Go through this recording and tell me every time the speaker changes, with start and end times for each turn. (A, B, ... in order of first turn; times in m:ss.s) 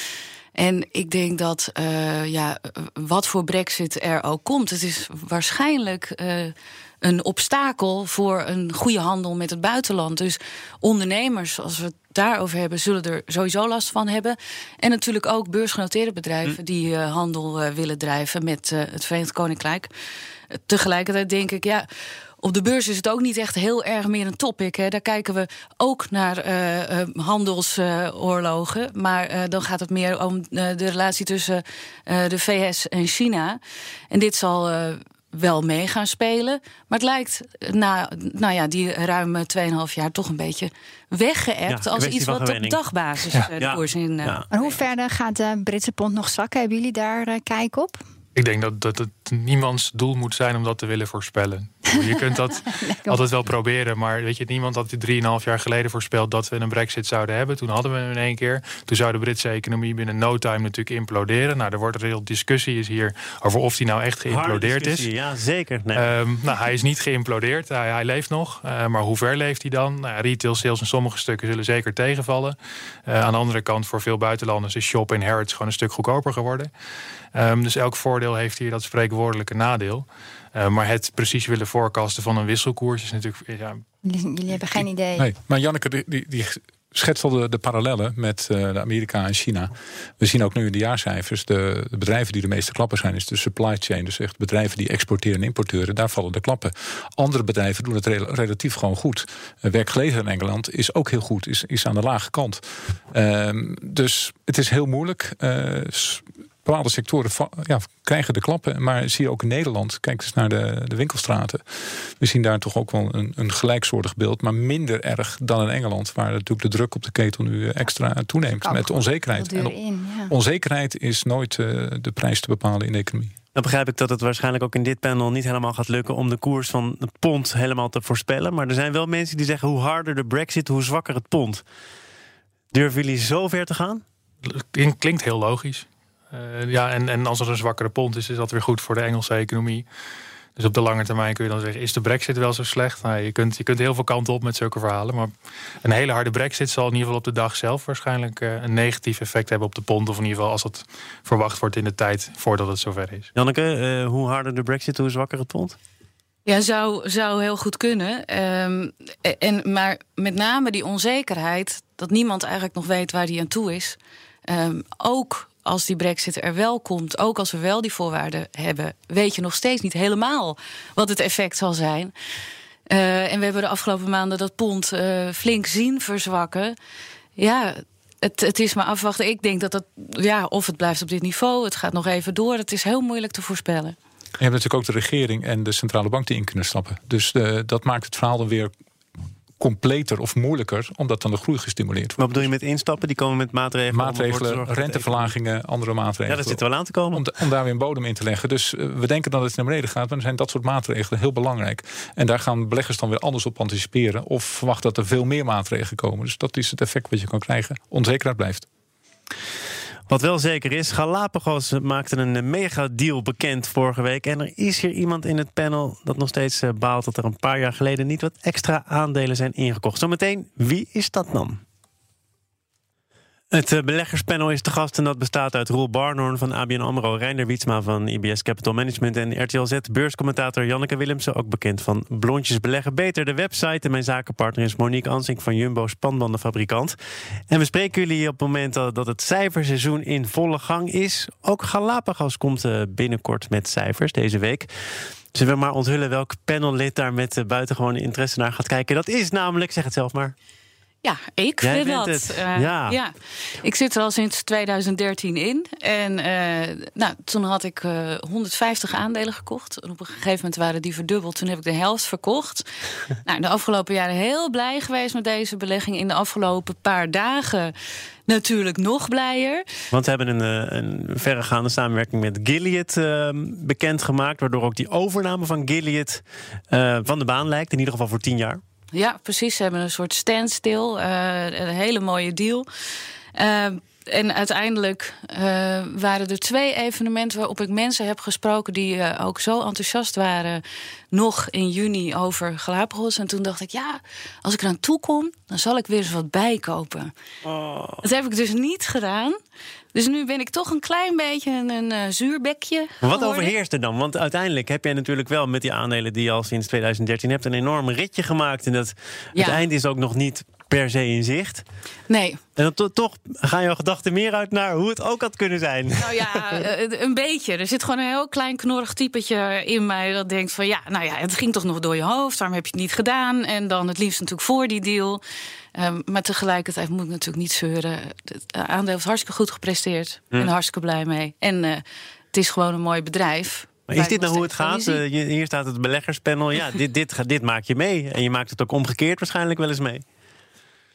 0:00.6-0:19.9 A
0:20.5-0:21.9 A
0:22.4-0:33.6 A
0:34.1-0:44.4 A
0:41.7-0:42.8 B
0:43.6-0:44.5 B
0:44.5-0:48.0 C
0:48.4-1:05.1 D
0:52.8-0:53.2 C
1:04.3-1:06.1 B
1:06.0-1:16.7 D
1:17.3-1:23.8 D
1:24.0-1:25.2 C
1:25.2-1:59.8 E
1:58.6-2:00.3 C
2:00.3-2:03.3 E
2:03.5-2:11.6 B
2:12.7-2:14.0 B
2:14.4-2:19.9 D
2:20.6-2:25.3 D
2:25.8-2:33.3 D
2:33.4-2:35.8 B
2:36.5-2:52.1 A
2:52.9-2:56.8 A
2:57.4-3:04.0 A
3:04.4-3:08.7 E
3:09.6-3:12.5 E
3:12.2-3:15.3 B
3:13.9-3:28.6 E
3:16.3-3:17.2 B
3:30.1-3:41.6 B
3:43.5-3:57.0 B
3:57.5-4:04.7 B
4:05.3-4:10.4 B
4:11.0-4:22.7 A
4:11.6-4:13.0 B
4:23.2-4:27.7 A
4:28.3-4:29.6 A
4:29.9-4:38.6 B
4:38.9-4:42.6 A
4:43.3-4:57.1 A
4:57.4-4:58.0 B
4:58.0-4:59.4 A
4:59.9-5:03.5 A
5:03.0-5:11.6 B
5:09.3-5:09.6 A
5:12.1-5:12.4 A
5:12.6-5:16.6 B
5:16.0-5:25.2 A
5:25.8-5:35.0 A
5:33.9-5:40.0 B